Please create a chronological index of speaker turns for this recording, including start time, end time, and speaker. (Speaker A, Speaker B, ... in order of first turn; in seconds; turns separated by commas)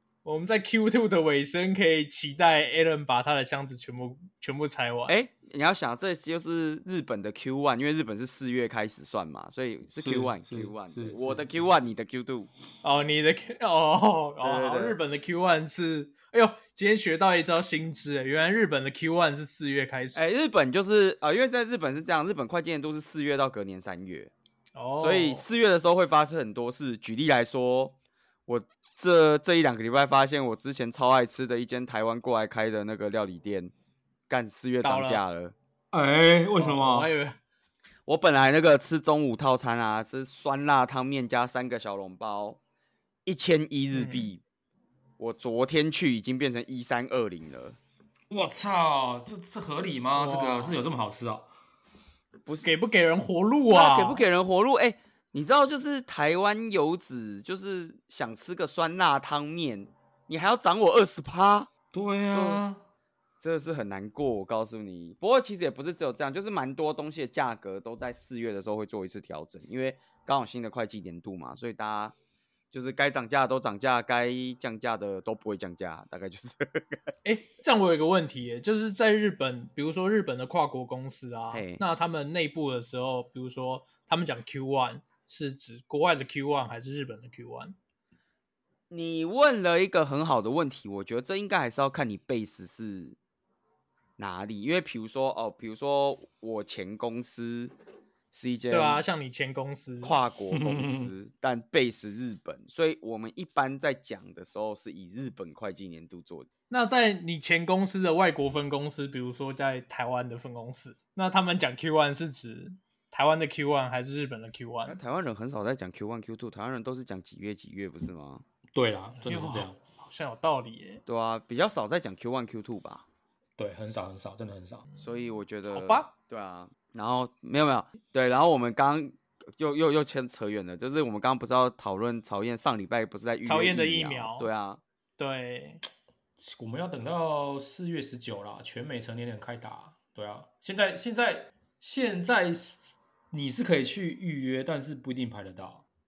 Speaker A: 0.2-5.2, Speaker B: 5.1-12.5, Speaker C: 10.0-11.5, Speaker A: 12.8-20.2, Speaker B: 14.4-15.0, Speaker B: 20.1-24.3, Speaker A: 24.8-25.4, Speaker B: 25.0-33.7, Speaker B: 34.3-35.5, Speaker A: 34.8-35.2, Speaker C: 35.9-37.1, Speaker A: 36.6-37.4, Speaker B: 38.1-42.6, Speaker B: 43.2-44.4, Speaker A: 43.9-44.3, Speaker B: 45.2-47.8, Speaker C: 48.3-51.5, Speaker A: 50.2-50.8, Speaker B: 52.5-52.7, Speaker A: 52.6-54.2, Speaker B: 53.7-61.7, Speaker C: 61.9-62.8, Speaker B: 62.3-62.6, Speaker B: 63.4-72.2, Speaker B: 72.7-77.0, Speaker A: 77.2-87.8, Speaker B: 81.5-81.8, Speaker B: 88.9-93.2, Speaker B: 94.2-97.7, Speaker B: 98.3-99.0, Speaker A: 98.7-100.2, Speaker B: 100.0-106.5, Speaker C: 100.5-101.1, Speaker A: 106.7-115.0, Speaker B: 114.8-118.4, Speaker C: 118.7-119.8, Speaker A: 119.2-121.0, Speaker B: 121.1-123.0, Speaker C: 123.6-124.9, Speaker B: 125.0-134.8, Speaker A: 125.7-126.1, Speaker A: 133.4-134.5, Speaker A: 135.2-135.8, Speaker C: 136.4-145.8